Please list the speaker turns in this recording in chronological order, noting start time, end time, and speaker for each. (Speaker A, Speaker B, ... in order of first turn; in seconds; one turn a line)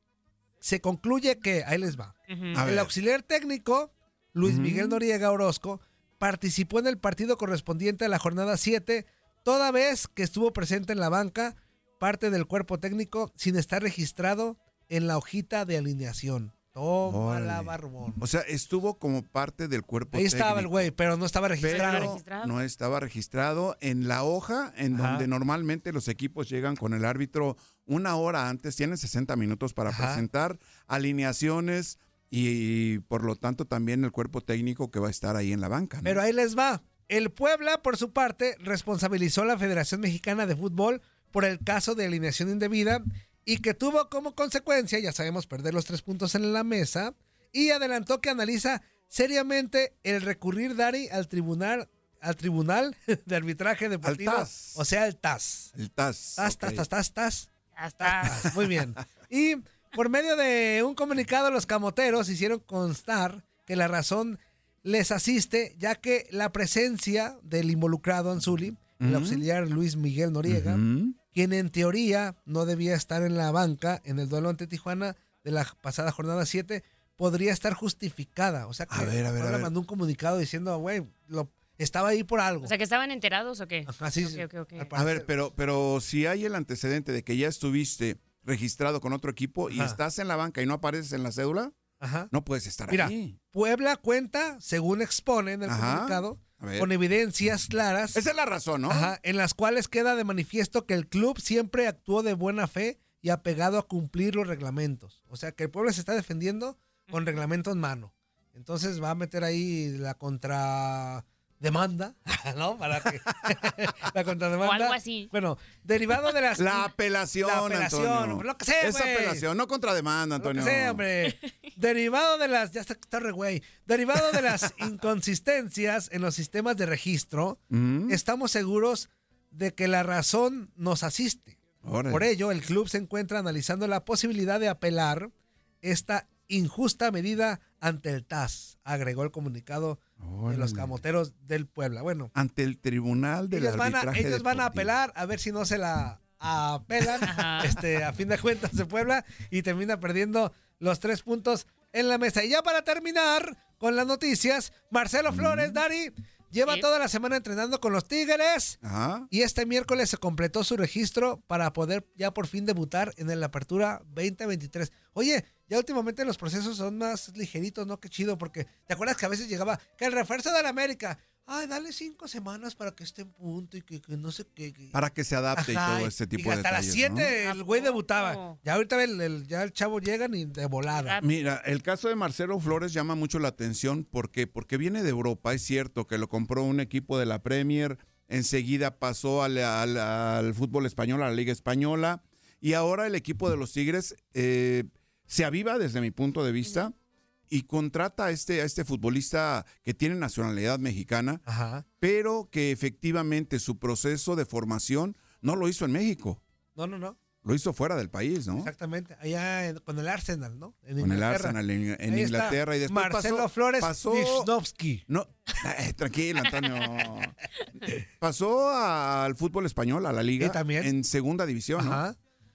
Speaker A: 0.6-18.2
Speaker B: 2.3-2.6
Speaker C: 2.5-2.9
Speaker C: 4.4-5.0
Speaker C: 17.0-20.9
Speaker A: 20.1-22.2
Speaker C: 21.6-36.2
Speaker B: 21.6-22.5
Speaker A: 24.9-25.2
Speaker A: 29.9-30.2
Speaker A: 36.0-55.7
Speaker C: 54.0-54.8
Speaker C: 55.8-56.9
Speaker A: 56.4-70.8
Speaker B: 57.8-58.5
Speaker C: 69.0-69.5
Speaker C: 70.5-71.2
Speaker A: 71.3-82.7
Speaker C: 78.9-79.7
Speaker B: 82.6-84.9
Speaker A: 83.9-85.3
Speaker C: 84.9-91.8
Speaker A: 89.7-90.0
Speaker A: 92.0-92.3
Speaker C: 92.3-93.4
Speaker A: 92.9-98.2
Speaker C: 95.7-96.9
Speaker C: 98.1-99.1
Speaker A: 98.9-116.9
Speaker B: 114.6-115.3
Speaker C: 116.5-121.0
Speaker A: 117.4-119.5
Speaker A: 120.4-131.6
Speaker C: 127.7-128.2
Speaker C: 131.8-132.3
Speaker A: 132.1-142.3
Speaker C: 140.2-141.0
Speaker C: 142.3-144.9
Speaker A: 143.5-158.8
Speaker B: 147.2-147.7
Speaker C: 155.3-155.8
Speaker C: 158.8-159.3
Speaker A: 159.3-174.9
Speaker C: 174.9-177.3
Speaker A: 175.6-181.2
Speaker B: 177.4-178.6
Speaker B: 180.9-181.2
Speaker C: 181.2-196.9
Speaker C: 197.5-201.4
Speaker A: 201.5-201.9
Speaker C: 202.0-206.4
Speaker A: 206.8-207.2
Speaker C: 207.4-208.7
Speaker A: 208.6-211.6
Speaker C: 211.0-214.5
Speaker A: 212.1-215.0
Speaker C: 215.1-217.3
Speaker C: 217.9-222.0
Speaker A: 220.4-220.9
Speaker A: 221.8-222.2